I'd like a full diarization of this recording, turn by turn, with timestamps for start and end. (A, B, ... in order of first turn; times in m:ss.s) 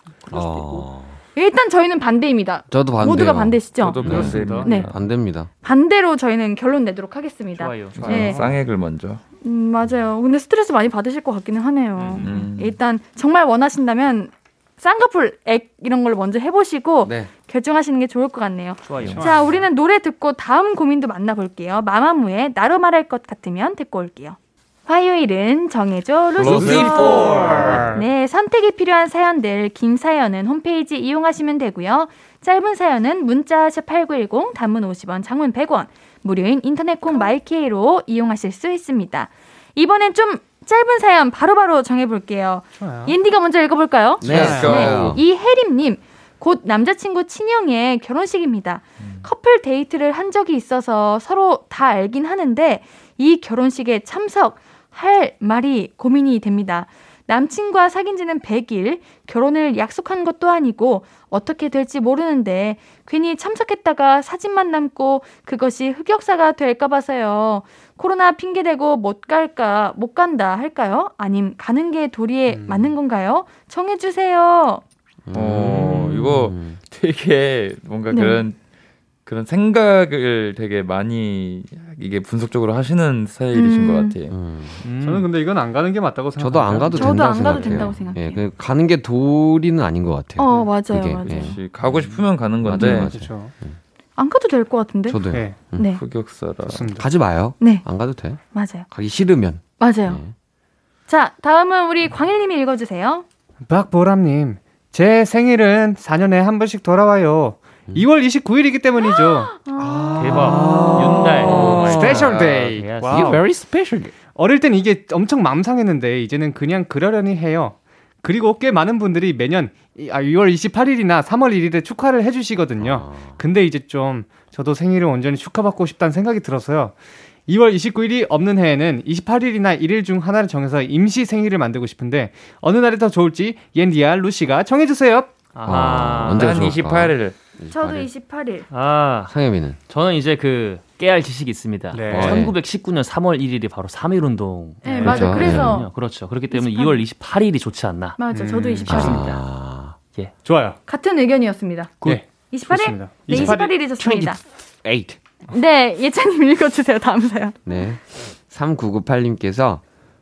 0:00.2-0:00.9 A
0:00.3-0:01.2 B
0:01.4-0:04.9 C
0:02.7-0:05.5 B
0:03.7-0:05.0 D
0:04.0-0:04.7 E
0:05.6-0:08.4 C
0:07.6-0:08.4 A
0:08.0-0:09.2 D
0:08.2-0:08.5 E
0:09.4-1:14.8 C
0:12.0-0:12.4 A
0:12.2-0:12.8 D
0:17.0-0:17.3 B
0:18.8-0:19.6 A
0:26.4-0:27.8 D
0:26.4-0:28.0 B
0:26.6-0:28.0 E
0:42.8-0:43.2 E
0:44.2-0:45.2 B
0:44.2-0:45.2 D
0:44.3-0:44.8 E
1:12.5-1:12.9 E
1:15.3-1:16.8 B
1:15.3-1:18.6 D
1:18.1-1:18.4 C
1:19.3-1:24.4 D
1:23.5-1:24.2 C
1:24.3-1:24.8 B
1:24.8-1:25.3 A
1:25.0-1:28.1 E
1:26.4-1:33.8 B
1:26.9-1:28.4 C
1:30.4-1:31.6 C
1:31.3-1:33.2 D
1:32.7-1:33.5 E
1:34.2-1:35.2 C
1:35.1-1:35.9 B
1:35.3-1:35.6 E
1:35.7-1:36.0 C
1:35.9-1:36.9 D
1:36.7-1:37.1 E
1:36.9-1:40.3 B
1:37.6-1:37.9 C
1:38.5-1:38.9 C
1:39.8-1:40.2 C
1:41.1-1:43.2 C
1:43.6-1:53.4 E
1:49.2-1:50.7 C
1:49.8-1:52.4 B
1:50.2-1:53.5 A
1:51.9-1:52.8 D
1:52.9-1:54.2 B
1:54.3-2:07.0 E
2:02.8-2:03.4 B
2:07.5-2:15.4 E
2:15.5-2:16.8 A
2:15.6-2:18.1 B
2:16.3-2:17.4 D
2:17.7-2:18.7 C
2:18.7-2:29.4 A
2:19.3-2:19.8 B
2:21.9-2:22.5 E
2:22.1-2:22.6 B
2:24.8-2:26.0 C
2:25.0-2:25.8 B
2:26.5-2:27.0 C
2:28.2-2:29.2 C
2:28.3-2:29.2 E
2:28.9-2:30.0 B
2:30.0-2:30.4 A
2:30.4-2:30.8 E
2:30.9-2:34.4 C
2:32.0-2:33.8 E
2:33.3-2:35.2 B
2:35.5-2:37.6 C
2:37.6-2:39.8 B